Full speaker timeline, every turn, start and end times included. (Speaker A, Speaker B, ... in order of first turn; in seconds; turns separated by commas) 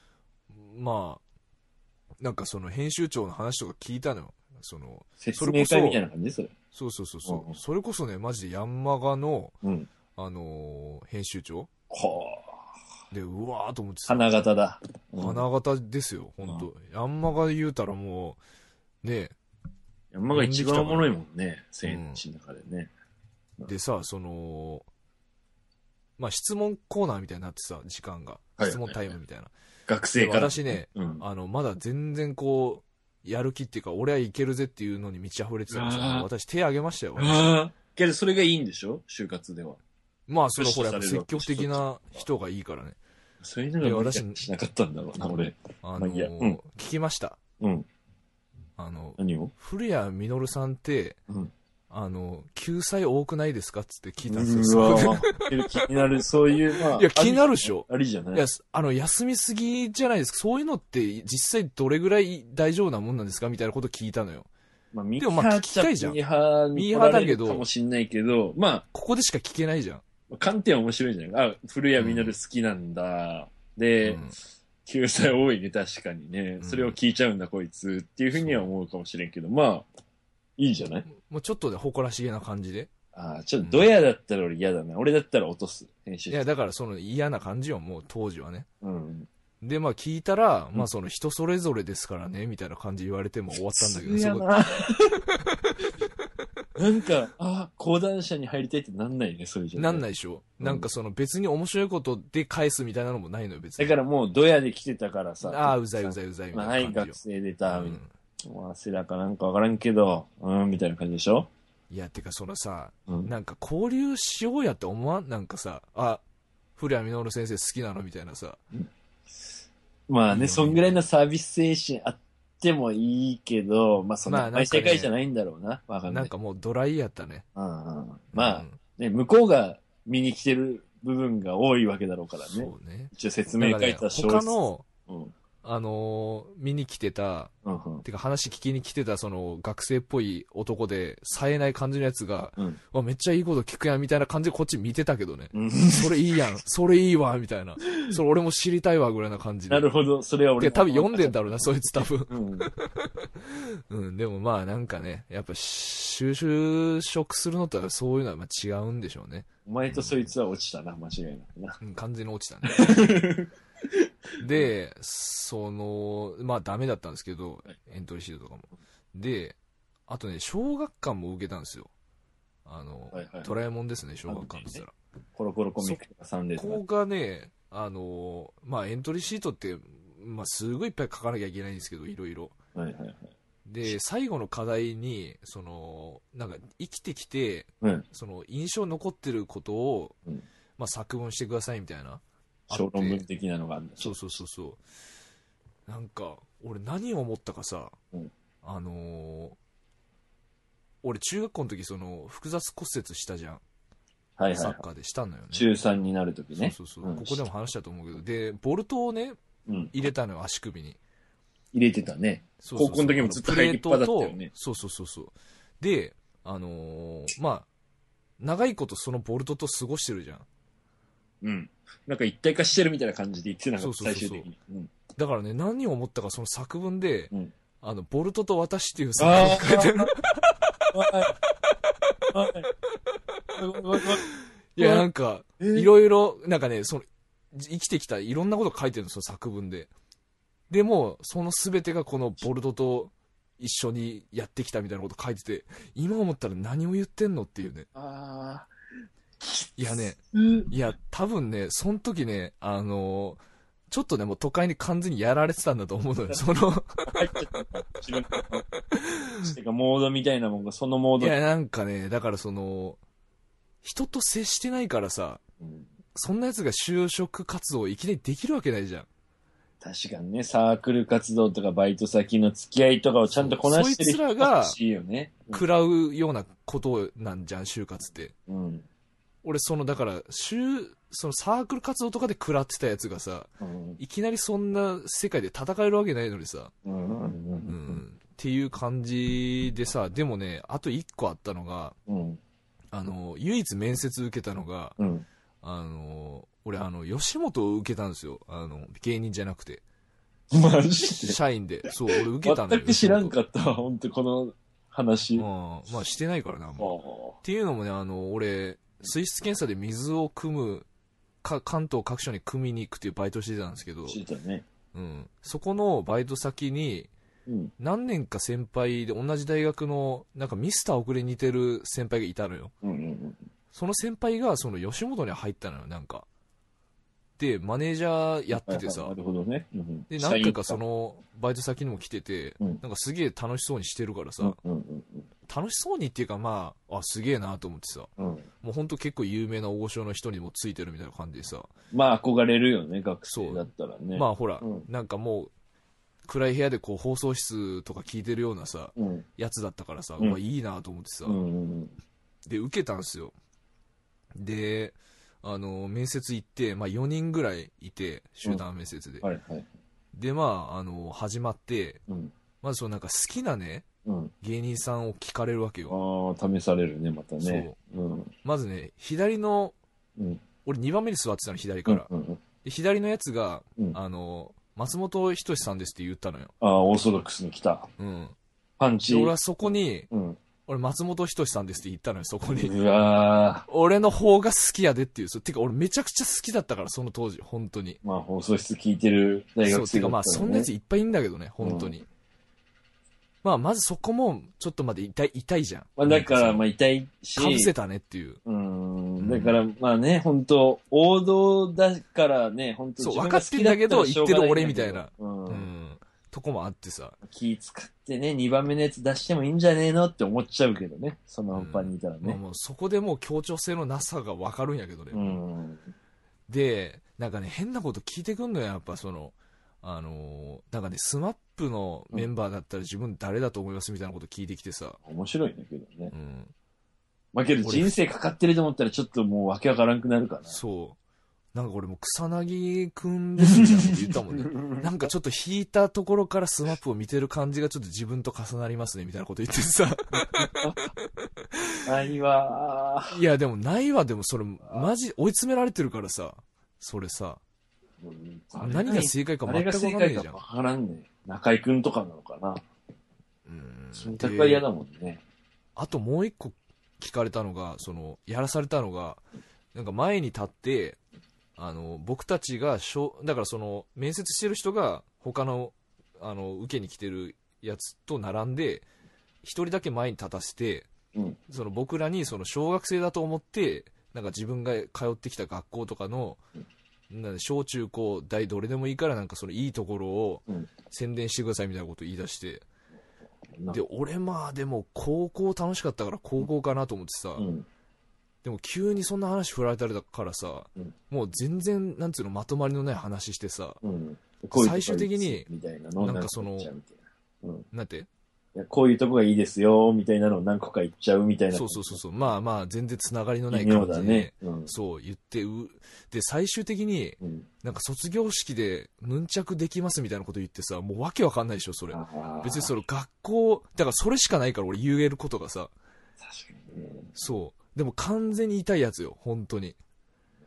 Speaker A: 0.5-1.2, Speaker A: 2.2-6.0, Speaker B: 5.2-6.5, Speaker A: 6.7-9.6, Speaker B: 7.2-7.6, Speaker B: 9.6-9.9, Speaker A: 10.2-11.7, Speaker B: 11.9-12.7, Speaker A: 13.1-14.3, Speaker B: 14.1-15.4, Speaker A: 15.2-18.4, Speaker A: 19.0-19.3, Speaker B: 20.1-22.9, Speaker A: 20.3-21.1, Speaker A: 21.8-22.2, Speaker A: 23.6-24.9, Speaker A: 26.2-29.5, Speaker B: 28.6-29.1, Speaker B: 29.9-31.2, Speaker A: 30.1-37.5, Speaker B: 35.7-36.3, Speaker B: 37.2-39.8, Speaker A: 40.3-43.0, Speaker B: 40.5-42.2, Speaker B: 43.4-46.6, Speaker A: 43.8-44.5, Speaker A: 45.8-47.4, Speaker B: 47.6-47.9, Speaker A: 48.8-51.2, Speaker B: 49.2-49.5, Speaker A: 51.9-55.9, Speaker B: 54.3-58.4, Speaker A: 56.7-64.5, Speaker B: 64.9-68.8, Speaker A: 65.2-66.2, Speaker A: 66.7-67.7, Speaker A: 68.9-70.0, Speaker B: 70.3-74.2, Speaker A: 72.0-72.3, Speaker A: 74.0-74.4, Speaker B: 74.8-79.9, Speaker A: 76.6-77.0, Speaker A: 78.3-78.7, Speaker B: 80.6-81.1, Speaker A: 81.1-82.9, Speaker B: 83.1-86.4, Speaker A: 83.6-83.9, Speaker A: 86.3-88.7, Speaker B: 88.8-89.3, Speaker A: 89.6-95.9, Speaker B: 93.7-95.2, Speaker B: 96.8-100.0, Speaker A: 99.8-103.9, Speaker B: 100.6-100.9, Speaker B: 103.8-111.5, Speaker A: 105.4-108.1, Speaker A: 111.9-116.2, Speaker A: 116.8-118.6, Speaker B: 120.1-126.3, Speaker A: 120.3-121.0, Speaker A: 124.2-125.1, Speaker A: 126.1-127.4, Speaker B: 127.5-134.5, Speaker A: 128.3-128.8, Speaker A: 132.5-134.8, Speaker B: 135.1-135.3, Speaker A: 135.6-137.5, Speaker B: 137.6-138.0, Speaker A: 138.0-149.9, Speaker B: 145.5-146.4, Speaker B: 149.7-152.7, Speaker A: 150.6-160.3, Speaker B: 159.7-161.8, Speaker A: 161.8-163.1, Speaker B: 162.7-164.7, Speaker A: 164.4-169.6, Speaker A: 170.1-171.9, Speaker A: 172.6-174.9, Speaker B: 173.1-173.5, Speaker B: 174.3-174.8, Speaker B: 175.3-176.8, Speaker A: 176.6-182.5, Speaker B: 182.7-183.3, Speaker A: 183.7-190.2, Speaker A: 190.8-193.2, Speaker B: 192.7-194.4, Speaker A: 194.0-194.8, Speaker A: 195.9-198.0, Speaker A: 198.6-199.6, Speaker A: 201.0-203.6, Speaker B: 204.4-204.8, Speaker A: 204.5-205.7, Speaker B: 205.5-207.4, Speaker A: 206.6-209.4, Speaker B: 209.7-209.9, Speaker A: 209.9-211.0, Speaker B: 211.7-214.5, Speaker A: 212.6-217.7, Speaker A: 218.4-220.4, Speaker B: 221.4-224.9, Speaker A: 223.8-224.5, Speaker A: 225.2-231.3, Speaker B: 229.2-230.1, Speaker B: 230.9-231.3, Speaker A: 232.0-232.5, Speaker B: 232.3-232.7, Speaker A: 233.5-239.9, Speaker B: 233.5-234.2, Speaker B: 234.8-235.1, Speaker B: 235.6-235.9, Speaker A: 240.7-247.9, Speaker B: 247.9-248.7, Speaker B: 249.4-250.7, Speaker A: 249.8-253.4, Speaker A: 253.9-257.2, Speaker B: 257.0-258.7, Speaker A: 258.9-259.5, Speaker B: 259.4-261.3, Speaker A: 261.2-263.0, Speaker A: 263.8-265.4, Speaker B: 265.6-265.9, Speaker A: 266.1-269.1, Speaker B: 269.8-275.6, Speaker A: 273.3-274.8, Speaker A: 275.5-278.3, Speaker B: 278.5-278.9, Speaker A: 279.4-286.7, Speaker B: 283.6-284.0, Speaker B: 286.8-288.0, Speaker A: 287.6-292.0, Speaker B: 292.1-292.4, Speaker A: 292.9-295.0, Speaker B: 295.0-295.2, Speaker A: 295.6-299.8, Speaker B: 300.5-301.4, Speaker A: 301.2-303.3, Speaker B: 302.1-305.4, Speaker A: 305.4-310.9, Speaker B: 306.8-307.4, Speaker A: 311.4-314.2, Speaker B: 314.1-314.6, Speaker A: 314.9-317.1, Speaker B: 317.5-317.7, Speaker A: 317.8-322.7, Speaker B: 322.8-323.4, Speaker A: 323.7-326.2, Speaker A: 327.4-329.1, Speaker B: 328.5-330.8, Speaker A: 330.1-334.6, Speaker B: 334.4-335.3, Speaker A: 335.5-338.1, Speaker B: 338.2-338.4, Speaker A: 338.6-341.7, Speaker B: 341.9-344.9, Speaker A: 343.3-345.5, Speaker A: 346.2-351.4, Speaker B: 348.9-349.2, Speaker B: 351.2-351.9, Speaker A: 352.5-353.3, Speaker A: 354.3-359.2, Speaker B: 359.2-359.7, Speaker A: 360.1-362.0, Speaker B: 362.1-362.3, Speaker A: 362.6-363.9, Speaker B: 364.0-364.3, Speaker A: 364.4-365.9, Speaker B: 365.9-368.3, Speaker A: 367.4-367.8, Speaker A: 368.4-369.8, Speaker B: 370.2-370.4, Speaker A: 370.6-372.1, Speaker B: 371.9-372.4, Speaker A: 372.6-376.5, Speaker B: 376.6-377.9, Speaker A: 378.0-378.4, Speaker B: 378.8-379.3, Speaker A: 379.1-380.1, Speaker B: 380.1-380.4, Speaker A: 380.7-382.8, Speaker B: 382.5-383.7, Speaker A: 383.7-388.0, Speaker B: 388.0-390.7, Speaker A: 389.6-392.1, Speaker B: 391.6-391.9, Speaker A: 393.4-396.6, Speaker B: 396.0-397.7, Speaker A: 397.4-398.4, Speaker B: 398.4-405.7, Speaker A: 399.2-399.6, Speaker A: 403.0-407.2, Speaker B: 407.2-412.4, Speaker A: 411.5-415.4, Speaker B: 415.1-415.9, Speaker A: 416.5-425.0, Speaker B: 425.1-426.1, Speaker A: 426.1-426.5, Speaker B: 427.3-430.6, Speaker A: 427.6-427.9, Speaker A: 430.5-431.0, Speaker A: 431.5-441.8, Speaker B: 433.5-435.1, Speaker B: 440.1-440.8, Speaker B: 441.8-443.2, Speaker A: 443.1-447.4, Speaker B: 448.0-452.6, Speaker A: 448.6-450.4, Speaker A: 453.4-454.6, Speaker B: 453.9-455.2, Speaker A: 455.8-459.2, Speaker A: 459.7-461.0, Speaker A: 461.6-468.9, Speaker A: 469.4-470.9, Speaker A: 471.5-476.4, Speaker A: 477.1-482.6, Speaker A: 483.7-487.5, Speaker B: 487.4-487.6, Speaker A: 488.4-493.8, Speaker B: 493.8-497.6, Speaker A: 494.5-496.7, Speaker A: 497.7-498.1, Speaker B: 498.5-502.2, Speaker A: 501.5-515.7, Speaker B: 503.5-504.7, Speaker B: 511.9-512.7, Speaker B: 516.2-517.1, Speaker A: 517.1-519.8